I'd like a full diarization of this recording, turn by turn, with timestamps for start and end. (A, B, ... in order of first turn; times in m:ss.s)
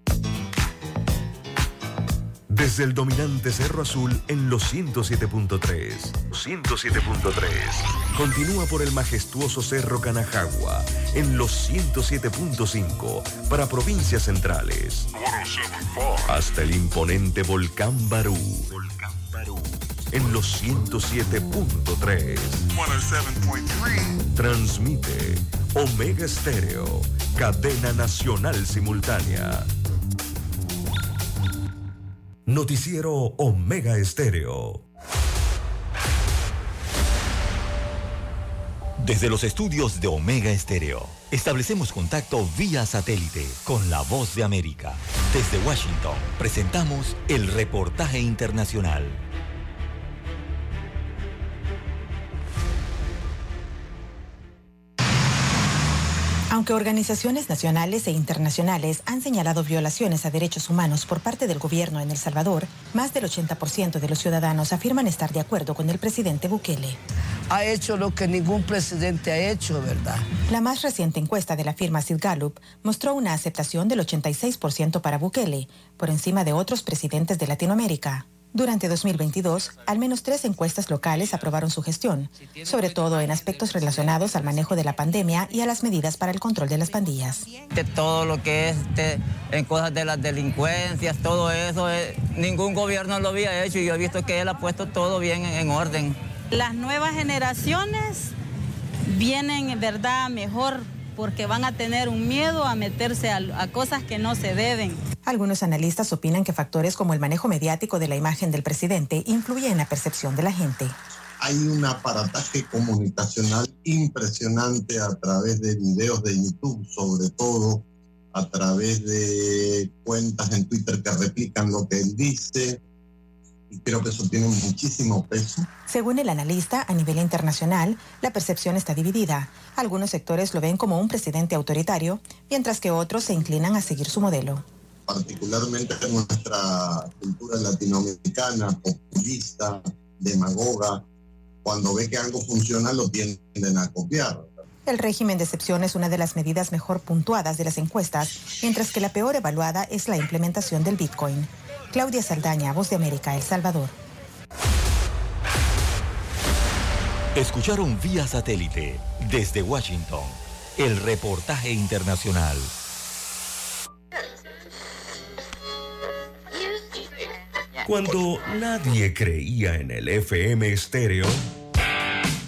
0:02.5-0:15.1 A
0:16.2-0:18.7 A
0:19.4-0:22.7 A
0:24.3-0:29.7 A
0:32.4-0:34.8 A
0:39.0-0:49.2 B
0:56.5-1:07.0 C
1:07.5-1:10.4 D
1:10.5-1:27.5 C
1:27.7-1:36.2 E
1:36.5-1:38.3 F
1:39.1-1:45.0 F
1:45.2-1:51.0 C
1:51.4-2:02.8 G
2:03.7-2:05.7 G
2:05.9-2:14.6 C
2:15.1-2:21.0 G
2:21.6-2:24.6 G
2:24.8-2:33.9 C
2:37.3-2:42.7 B
2:47.8-2:51.5 A